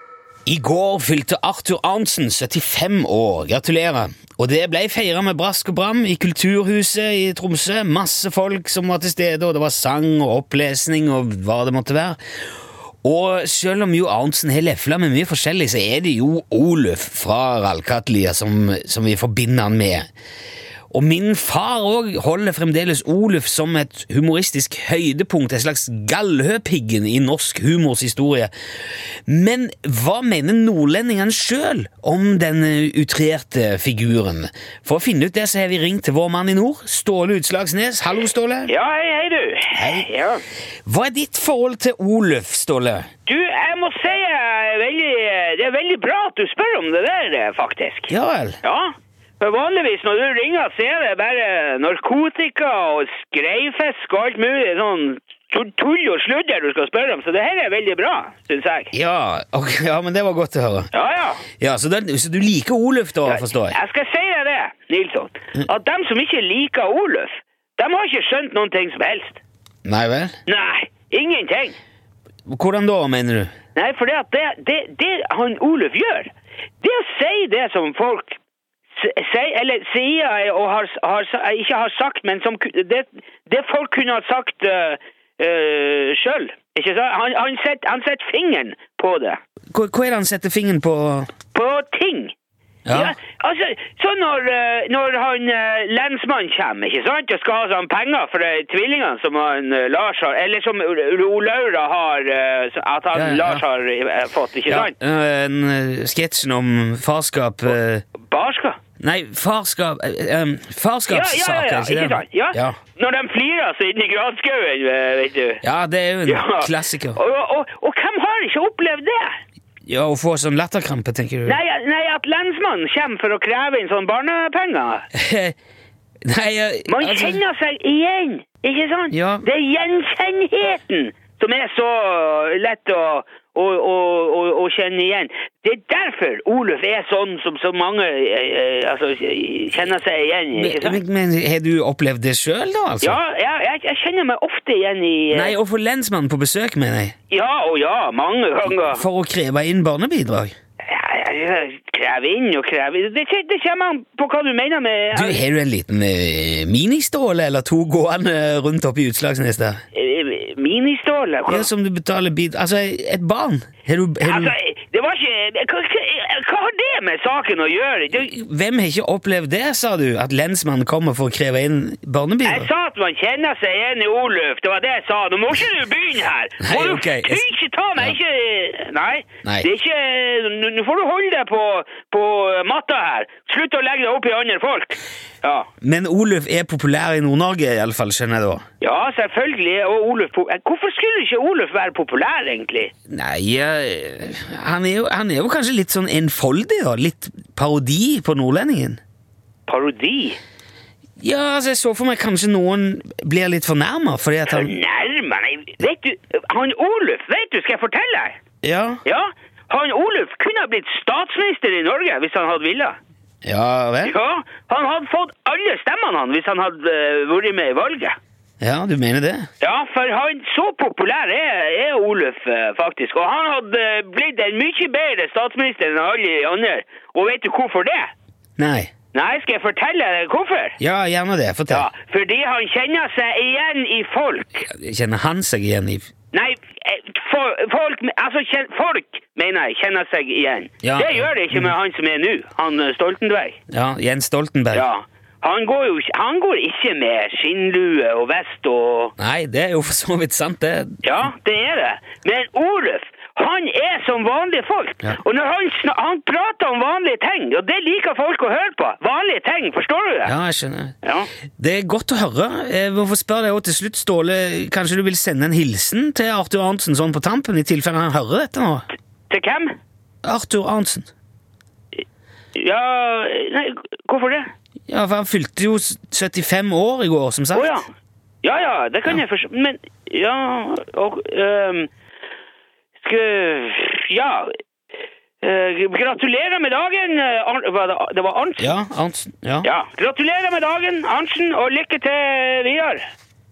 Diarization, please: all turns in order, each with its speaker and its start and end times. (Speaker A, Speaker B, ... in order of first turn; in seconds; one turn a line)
Speaker A: 0.5-12.2
Speaker A: 13.0-20.1
Speaker A: 20.9-28.5
Speaker A: 29.3-38.7
Speaker B: 38.7-40.4
Speaker A: 39.7-40.0
Speaker A: 40.9-43.1
Speaker B: 43.2-58.9
Speaker A: 48.1-48.6
Speaker A: 58.9-60.9
Speaker B: 60.9-61.5
Speaker A: 61.6-63.8
Speaker B: 63.2-69.4
Speaker A: 69.8-70.3
Speaker B: 70.5-71.8
Speaker A: 72.5-73.5
Speaker B: 73.8-76.3
Speaker B: 76.8-78.4
Speaker B: 79.0-89.4
Speaker A: 89.7-91.3
Speaker B: 91.5-92.3
Speaker A: 92.9-93.2
Speaker B: 92.9-104.9
Speaker A: 103.1-103.6
Speaker A: 104.7-108.0
Speaker B: 108.2-108.8
Speaker A: 109.0-112.8
Speaker B: 111.1-115.6
Speaker A: 115.6-117.2
Speaker B: 116.3-119.4
Speaker A: 119.9-121.6
Speaker B: 121.5-125.1
Speaker A: 125.1-125.5
Speaker A: 126.2-127.4
Speaker B: 126.9-141.0
Speaker A: 129.1-129.5
Speaker A: 140.5-143.2
Speaker B: 143.0-145.6
Speaker A: 145.3-147.1
Speaker B: 147.3-149.1
Speaker A: 148.7-150.5
Speaker B: 150.8-155.4
Speaker A: 155.1-159.8
Speaker B: 159.9-161.7
Speaker A: 161.5-164.5
Speaker B: 164.2-168.3
Speaker A: 168.1-172.7
Speaker B: 172.4-185.7
Speaker A: 176.6-177.4
Speaker A: 179.4-179.7
Speaker A: 185.8-188.6
Speaker B: 188.8-192.9
Speaker A: 193.1-199.0
Speaker B: 199.7-200.4
Speaker A: 201.2-204.7
Speaker B: 204.5-208.4
Speaker A: 208.6-209.0
Speaker B: 209.0-213.0
Speaker A: 213.4-214.1
Speaker B: 214.0-218.2
Speaker A: 218.6-219.5
Speaker B: 219.6-228.1
Speaker A: 228.6-228.9
Speaker B: 229.1-230.8
Speaker A: 230.8-231.9
Speaker B: 231.7-234.7
Speaker A: 234.7-236.1
Speaker B: 236.3-243.6
Speaker A: 240.8-241.7
Speaker A: 243.7-244.9
Speaker B: 244.7-249.1
Speaker A: 249.2-251.0
Speaker B: 251.0-260.4
Speaker A: 260.2-260.9
Speaker B: 261.0-261.3
Speaker A: 261.6-268.9
Speaker B: 269.3-269.7
Speaker A: 270.2-271.1
Speaker B: 272.6-274.5
Speaker A: 274.9-277.8
Speaker B: 277.5-277.9
Speaker B: 278.4-281.9
Speaker B: 283.0-284.6
Speaker B: 285.4-288.8
Speaker A: 288.6-289.7
Speaker B: 289.6-293.1